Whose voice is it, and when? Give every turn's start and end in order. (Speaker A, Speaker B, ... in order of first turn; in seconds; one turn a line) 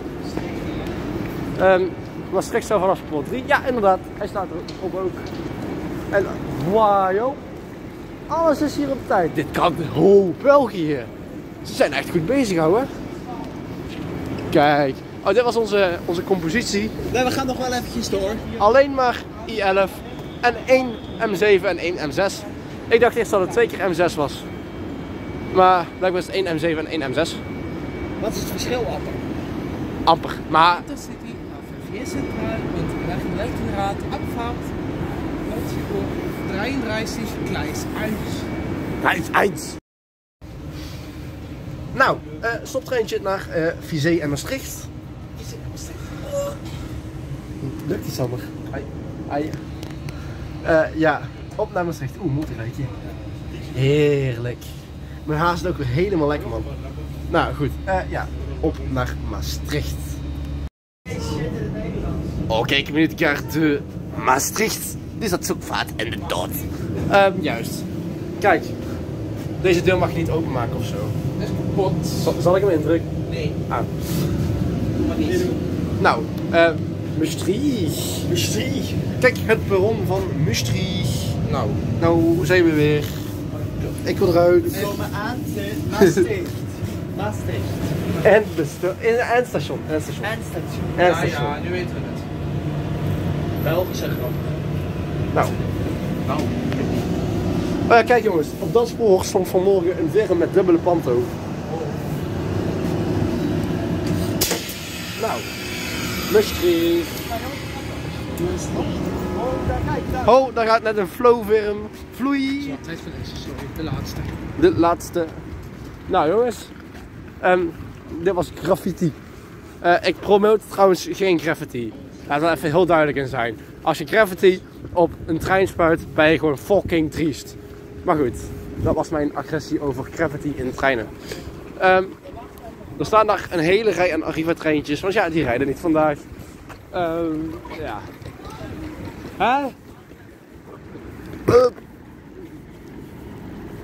Speaker A: 1.6-5.3
Speaker A: 6.1-7.4
Speaker A: 8.3-11.1
Speaker A: 11.6-12.9
Speaker A: 14.5-16.9
Speaker B: 17.1-18.5
Speaker A: 18.6-24.4
Speaker A: 25.5-27.4
Speaker B: 28.2-29.3
Speaker A: 30.0-30.9
Speaker C: 30.6-34.7
Speaker C: 35.5-38.5
Speaker A: 39.0-39.8
Speaker A: 41.9-44.9
Speaker C: 45.4-46.6
Speaker A: 47.6-49.6
Speaker A: 50.6-52.9
Speaker A: 53.7-54.7
Speaker A: 55.2-56.7
Speaker A: 57.3-60.2
Speaker B: 61.0-62.4
Speaker A: 62.5-67.9
Speaker A: 68.4-68.7
Speaker A: 69.6-71.1
Speaker C: 71.4-72.3
Speaker A: 72.2-73.1
Speaker C: 73.2-73.6
Speaker C: 74.9-75.6
Speaker B: 75.2-75.6
Speaker A: 76.0-78.3
Speaker B: 78.3-79.1
Speaker A: 79.2-81.4
Speaker C: 81.4-81.8
Speaker A: 82.0-83.3
Speaker A: 84.0-84.9
Speaker B: 84.7-87.9
Speaker A: 88.2-90.3
Speaker B: 90.2-91.2
Speaker A: 91.0-91.5
Speaker C: 91.0-92.2
Speaker B: 93.6-94.5
Speaker C: 96.2-97.0
Speaker A: 97.9-101.3
Speaker C: 101.7-101.9
Speaker A: 105.2-105.5
Speaker A: 106.3-107.2
Speaker B: 107.2-110.4
Speaker C: 108.4-108.9
Speaker A: 110.2-112.8
Speaker C: 112.6-114.4
Speaker A: 114.6-115.4
Speaker A: 116.1-116.7
Speaker A: 117.4-119.2
Speaker A: 119.8-131.1
Speaker A: 131.8-132.2
Speaker A: 133.0-136.2
Speaker A: 136.9-138.1
Speaker A: 139.4-139.7
Speaker A: 141.5-141.8